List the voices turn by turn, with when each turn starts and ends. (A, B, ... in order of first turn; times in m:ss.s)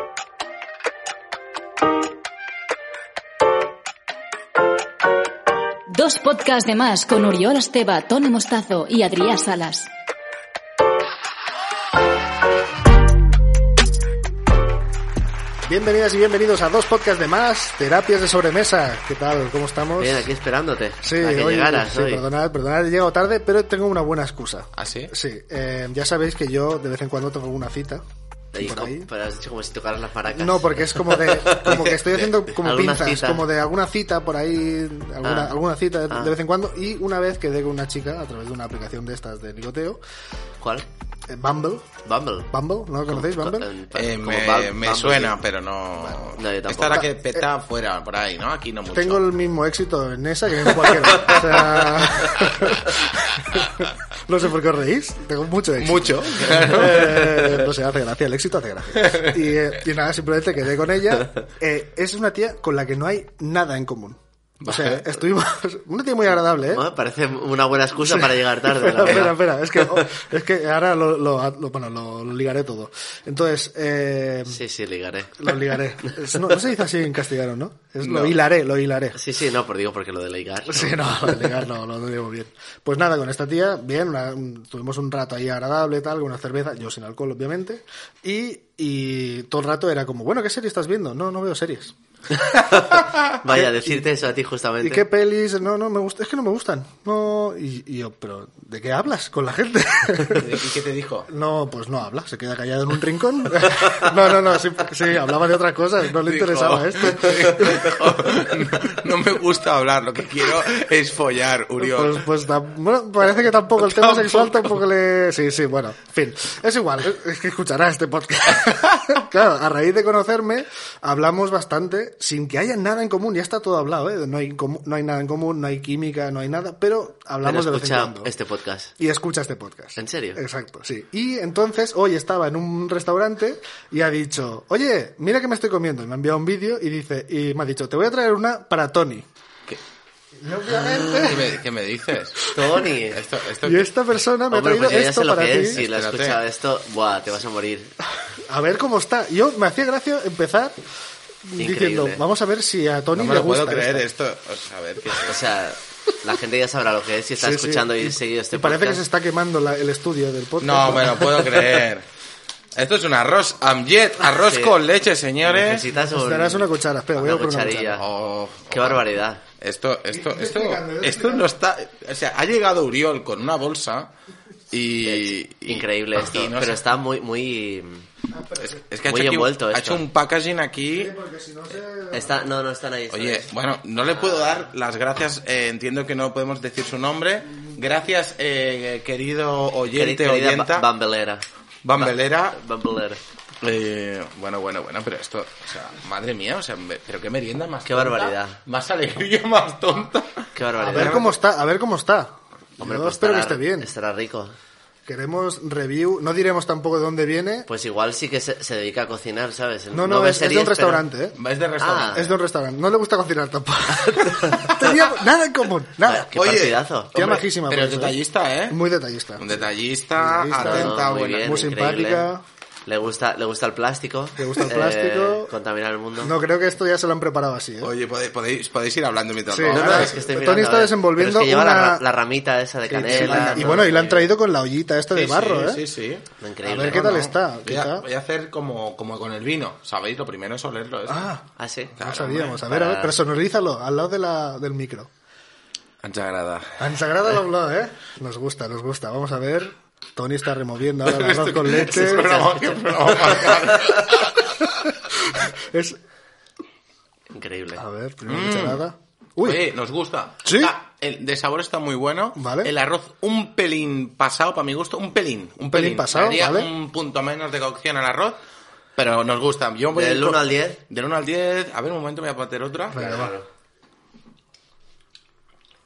0:05.9-0:09.9 A
0:15.7-0:20.3 B
0:20.0-0:22.2 C
0:21.0-0:28.0 B
0:24.8-0:25.1 D
0:28.5-0:31.7 C
0:28.6-0:29.1 B
0:30.3-0:40.0 B
0:31.7-0:32.5 D
0:32.6-0:33.5 C
0:35.2-0:35.6 C
0:40.6-0:40.9 C
0:41.3-0:41.9 B
0:42.0-0:42.5 C
0:42.5-0:43.7 B
0:43.1-0:45.4 C
0:43.9-0:49.2 D
0:46.2-0:47.1 C
0:48.9-1:06.8 B
0:55.8-0:57.6 D
1:04.6-1:05.1 D
1:06.7-1:10.1 C
1:08.1-1:14.6 B
1:14.5-1:16.4 C
1:15.4-1:19.2 B
1:19.2-1:21.6 C
1:20.7-1:31.9 B
1:32.4-1:35.1 C
1:33.5-1:34.0 B
1:34.8-1:40.6 B
1:40.3-1:41.3 D
1:41.3-1:48.4 B
1:46.3-1:52.2 D
1:51.8-2:08.3 B
1:53.8-1:54.8 D
2:07.4-2:08.9 C
2:09.0-2:19.3 B
2:10.0-2:10.4 C
2:20.4-2:21.6 B
2:21.1-2:22.5 D
2:22.4-2:22.7 B
2:22.5-2:23.2 C
2:23.1-2:23.9 D
2:23.6-2:25.8 B
2:24.5-2:27.9 C
2:25.7-2:26.4 D
2:28.3-2:30.8 B
2:31.4-2:34.0 B
2:31.6-2:32.2 C
2:33.1-2:35.4 D
2:35.1-2:39.0 C
2:37.4-2:41.7 B
2:40.6-2:42.0 D
2:42.8-2:45.9 D
2:44.4-2:44.7 C
2:45.4-2:48.1 C
2:45.9-2:48.0 B
2:48.0-2:54.1 D
2:48.7-2:49.4 C
2:50.1-2:51.5 B
2:54.7-2:56.8 D
2:55.0-2:58.1 C
2:58.3-2:58.8 B
2:58.6-3:01.2 D
2:59.0-3:00.0 C
3:00.9-3:02.3 B
3:02.1-3:03.5 C
3:03.1-3:10.9 D
3:09.9-3:11.4 C
3:11.8-3:12.6 D
3:12.0-3:13.2 C
3:13.6-3:21.3 D
3:17.9-3:18.6 C
3:20.6-3:21.2 C
3:20.8-3:23.9 B
3:22.8-3:24.6 C
3:25.1-3:27.7 B
3:27.7-3:31.0 C
3:29.9-3:31.4 B
3:31.4-3:32.4 D
3:31.8-3:32.2 C
3:32.1-3:36.3 B
3:34.6-3:35.1 D
3:36.0-3:37.2 C
3:36.3-3:38.8 D
3:37.1-3:38.2 B
3:38.7-3:39.6 B
3:39.4-3:41.6 D
3:40.2-3:42.4 B
3:40.6-3:42.3 C
3:42.9-3:46.4 C
3:44.4-3:45.5 B
3:46.2-3:47.9 B
3:47.8-3:50.2 D
3:49.5-3:52.0 B
3:49.7-3:54.1 C
3:52.9-3:55.8 B
3:53.1-3:54.3 D
3:55.1-3:56.3 D
3:56.4-3:57.2 C
3:56.6-3:58.0 B
3:56.9-4:01.3 D
4:01.1-4:01.4 B
4:01.6-4:02.0 C
4:02.0-4:02.6 D
4:02.0-4:05.1 B
4:02.6-4:03.2 C
4:06.0-4:06.8 D
4:06.8-4:12.6 B
4:11.0-4:14.7 D
4:15.1-4:16.0 B
4:17.3-4:17.8 C
4:17.8-4:19.6 B
4:18.3-4:18.8 D
4:19.4-4:28.4 D
4:20.4-4:20.7 B
4:22.4-4:22.7 B
4:25.7-4:26.7 B
4:29.0-4:33.2 D
4:29.9-4:30.8 C
4:32.9-4:33.3 B
4:32.9-4:33.5 C